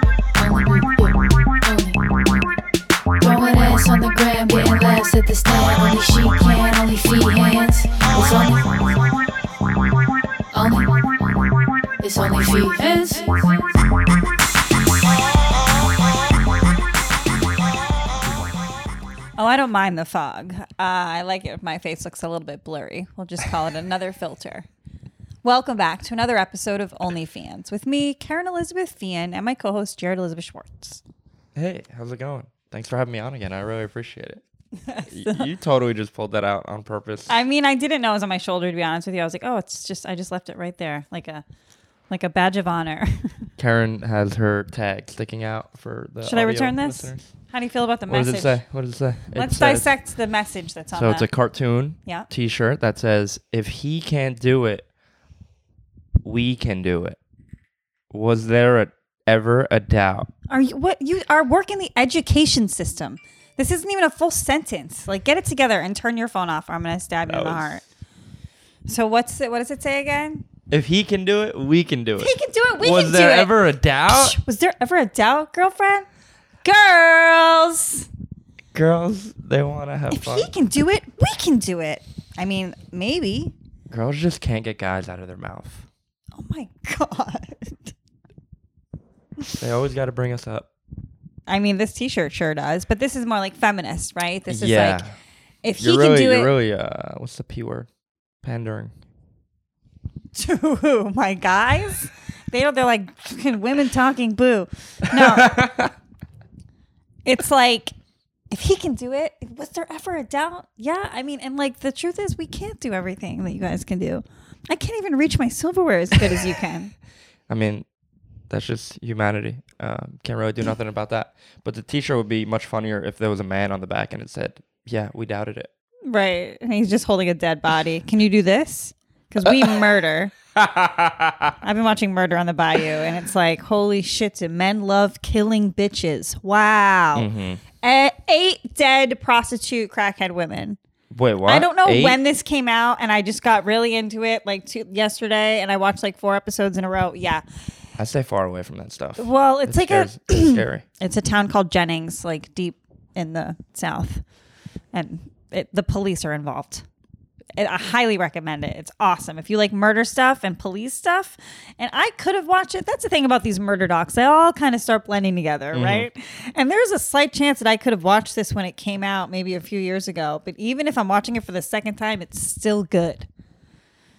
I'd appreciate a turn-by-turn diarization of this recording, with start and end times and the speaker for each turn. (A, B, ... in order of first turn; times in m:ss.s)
0:00.3-0:02.0 A
0:03.2-0:08.9 A
0:10.5-0:11.0 A
0:12.0-0:13.7 A
0:19.4-0:24.6 B
0:25.4-0:31.0 B
0:31.5-0:34.4 C
0:34.8-0:35.5 B
0:35.1-0:37.3 C
0:37.3-0:41.4 B
0:42.1-0:43.5 B
0:43.6-0:47.3 C
0:46.2-0:48.6 B
0:48.1-0:49.9 C
0:49.3-0:51.3 B
0:50.9-0:54.9 C
0:56.2-0:57.2 C
0:58.1-1:00.3 C
1:00.5-1:07.8 B
1:07.3-1:07.8 C
1:08.8-1:10.4 B
1:10.7-1:14.4 C
1:12.2-1:16.0 B
1:16.6-1:18.1 B
1:18.7-1:20.5 C
1:20.1-1:23.5 B
1:23.9-1:25.8 C
1:26.3-1:27.9 B
1:29.6-1:30.7 C
1:31.5-1:35.0 B
1:34.5-1:35.1 C
1:35.6-1:36.5 B
1:35.8-1:37.9 C
1:38.4-1:38.9 C
1:40.3-1:45.6 B
1:45.1-1:45.9 C
1:47.2-1:47.9 B
1:48.5-1:56.9 B
1:57.5-1:57.8 C
1:58.5-2:05.7 C
2:06.1-2:10.3 B
2:09.4-2:09.8 C
2:10.5-2:11.6 C
2:11.6-2:17.3 B
2:17.1-2:17.6 C
2:17.8-2:20.8 B
2:21.1-2:22.2 C
2:21.4-2:27.4 B
2:28.0-2:30.8 C
2:29.2-2:34.2 B
2:34.9-2:36.8 B
2:37.6-2:53.3 B
2:45.7-2:46.1 C